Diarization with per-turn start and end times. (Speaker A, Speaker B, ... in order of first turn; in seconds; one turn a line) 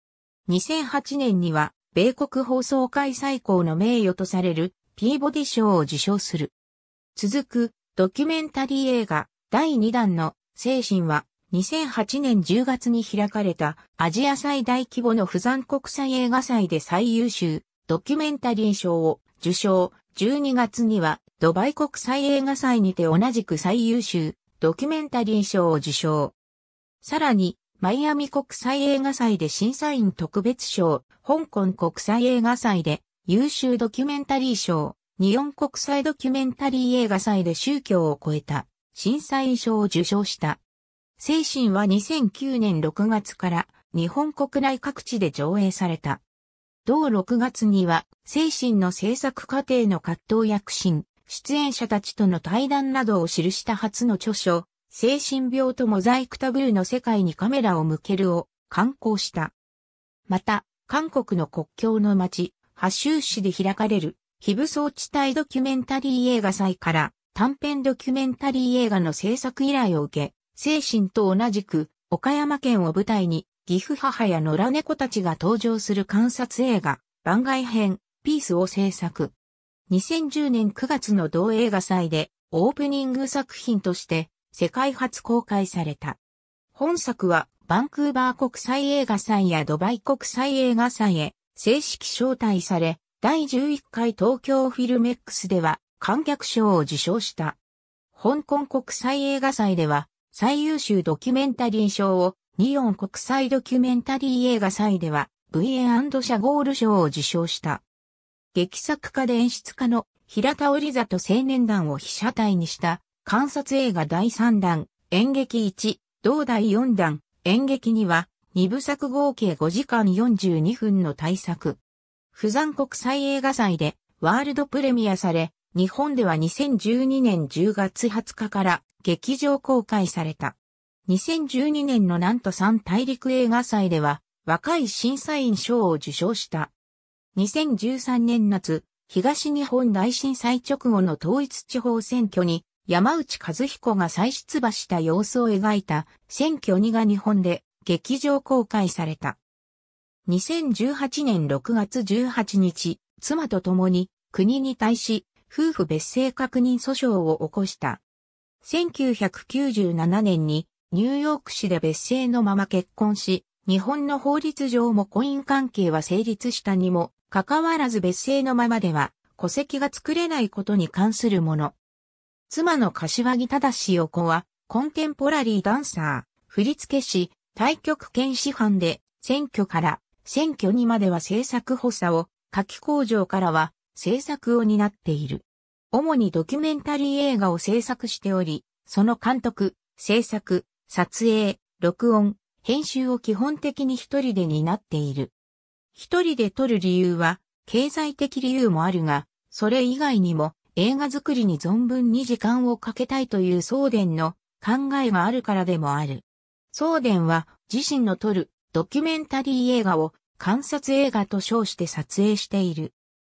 Speaker A: 0.5-6.5
Speaker A: 7.2-26.4
Speaker A: 27.0-40.6
Speaker A: 41.2-46.2
Speaker A: 46.9-59.5
Speaker A: 60.3-79.3
Speaker A: 79.9-86.2
Speaker A: 86.7-97.6
Speaker A: 98.1-107.8
Speaker A: 108.5-121.8
Speaker A: 122.3-130.6
Speaker A: 131.1-136.7
Speaker A: 137.3-149.4
Speaker A: 150.3-158.0
Speaker A: 158.6-171.8
Speaker A: 172.5-195.3
Speaker A: 195.9-212.9